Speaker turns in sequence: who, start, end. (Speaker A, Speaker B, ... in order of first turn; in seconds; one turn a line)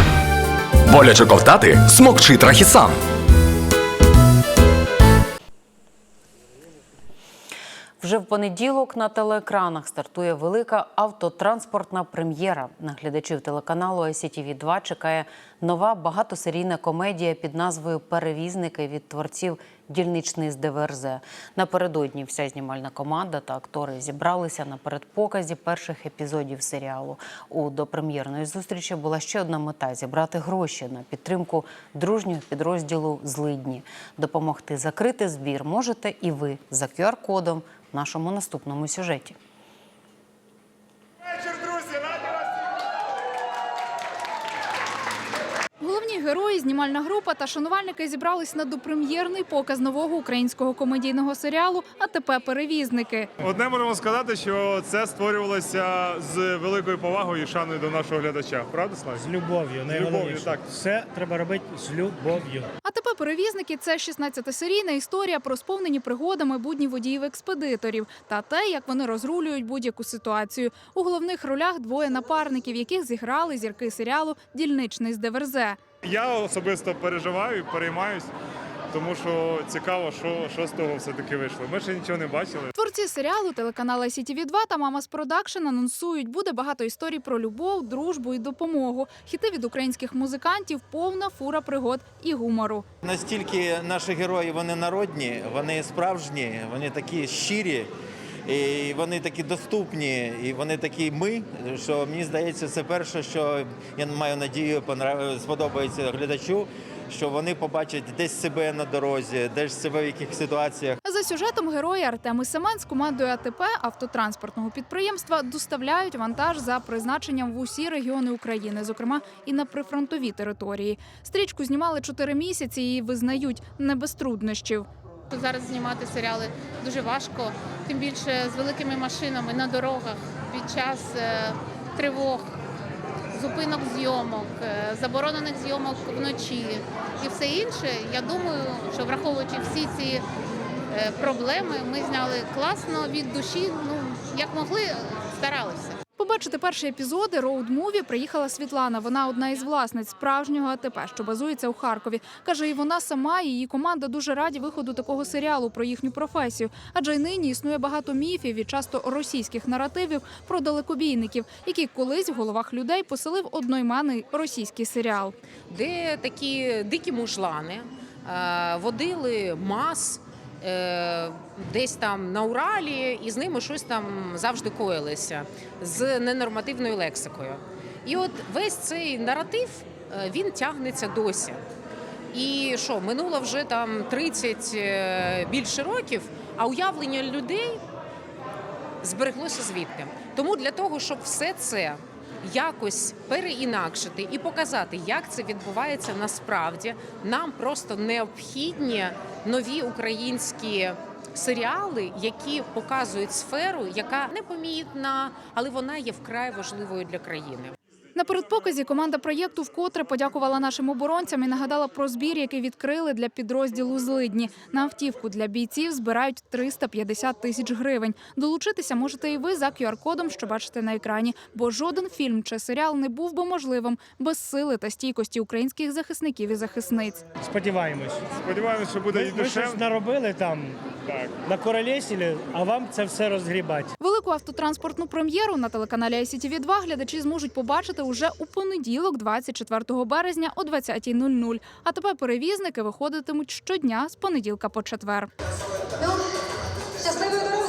Speaker A: 0.9-3.0
Speaker B: 8.0-39.4
Speaker C: 45.8-53.3
Speaker D: 53.4-59.3
Speaker E: 59.2-62.7
Speaker D: 59.9-60.6
Speaker C: 62.8-75.8
Speaker D: 76.0-78.3
Speaker D: 78.9-82.7
Speaker C: 82.7-92.8
Speaker F: 93.0-97.9
Speaker F: 98.5-111.0
Speaker C: 111.0-124.9
Speaker G: 125.3-132.4
Speaker G: 133.4-140.2
Speaker G: 141.0-145.9
Speaker C: 146.2-165.3
Speaker H: 165.7-181.6
Speaker H: 182.3-187.8
Speaker H: 189.0-207.7
Speaker C: 208.1-227.2
Speaker E: 227.4-228.2
Speaker D: 228.3-229.8
Speaker E: 229.1-230.8
Speaker D: 231.1-231.4
Speaker E: 231.4-233.9
Speaker C: 234.0-245.3